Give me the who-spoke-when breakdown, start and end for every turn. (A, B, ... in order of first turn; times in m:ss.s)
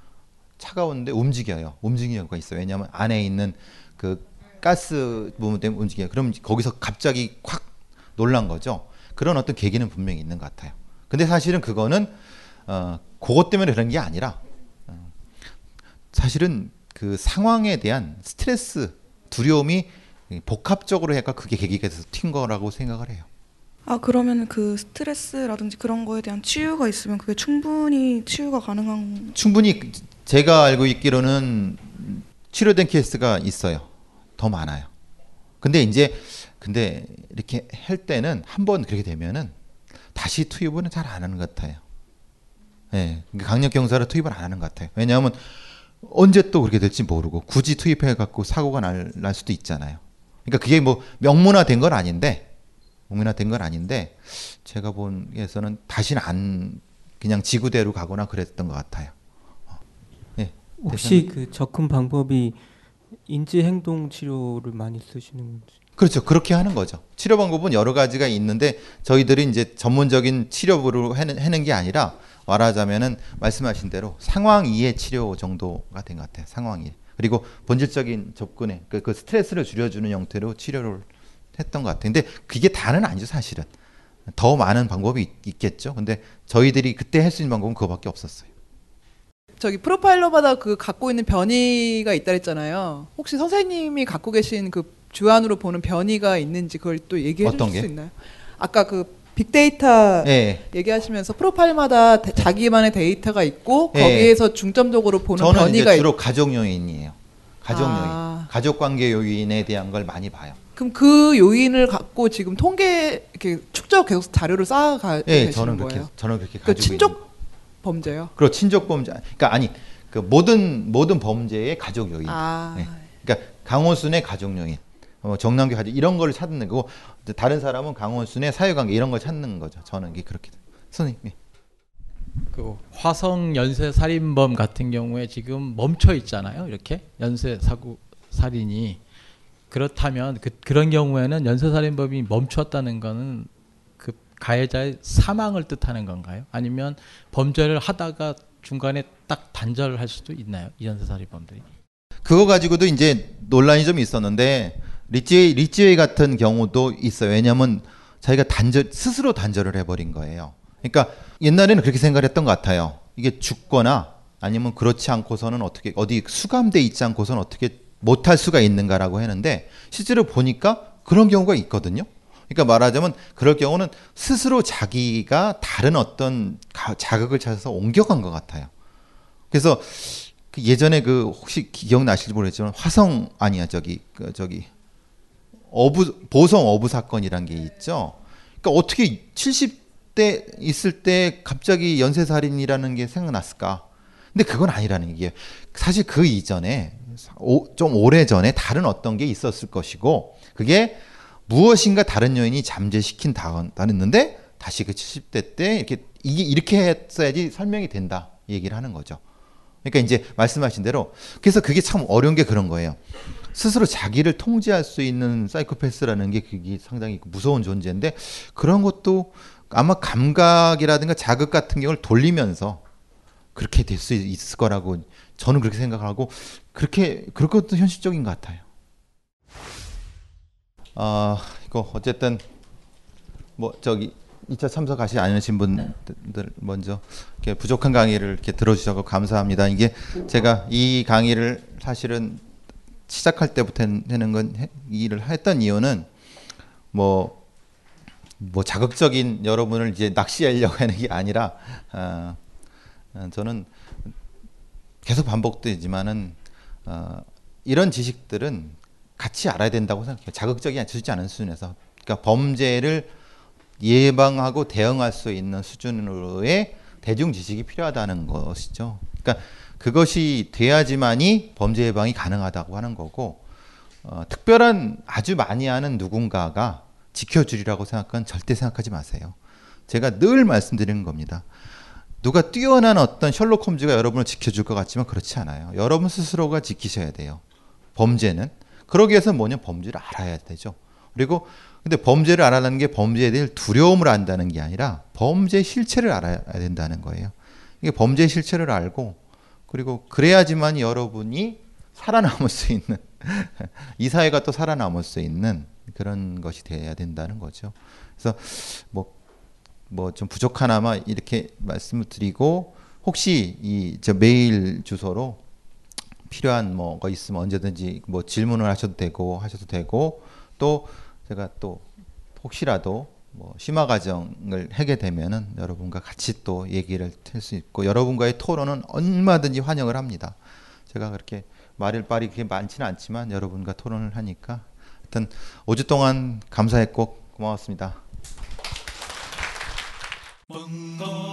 0:00.6-0:12.2 A
0:12.7-0:15.1 A
0:16.1-0:23.3 A
0:23.9-0:29.4 B
0:29.4-0:34.9 A
0:35.6-0:39.6 A
0:40.1-0:41.8 A
0:42.9-0:52.5 A
0:53.1-0:59.1 A
1:00.4-1:01.3 A
1:00.8-1:02.6 C
1:03.2-1:05.8 C
1:06.0-1:23.7 A
1:24.3-1:28.5 A
1:29.6-1:46.1 D
1:37.4-1:37.9 A
1:40.2-1:40.6 A
1:43.9-1:44.4 A
1:45.4-1:50.6 A
1:47.7-1:48.5 D
1:50.8-1:56.1 D
1:55.3-1:57.2 A
1:56.6-1:57.2 D
1:57.8-1:58.3 D
1:58.4-2:11.4 A
2:02.2-2:03.1 D
2:12.5-2:19.0 E
2:19.7-2:31.7 E
2:32.2-2:58.7 A
2:59.5-3:04.7 A
3:05.7-3:29.2 A
3:29.8-3:33.0 A
3:33.5-3:42.8 A
3:43.6-3:48.6 A
3:51.0-3:52.4 A
3:53.6-4:02.4 A
4:03.1-4:06.1 A
4:06.9-4:07.4 A
4:08.4-4:12.4 A
4:13.1-4:14.1 A
4:15.0-4:23.1 A
4:23.8-4:33.4 A
4:34.0-4:39.4 A
4:39.9-4:41.5 A
4:42.2-4:47.4 A
4:48.0-5:09.1 A
5:09.9-5:15.4 A
5:16.3-5:21.8 A
5:22.4-5:30.4 A
5:30.9-5:38.0 A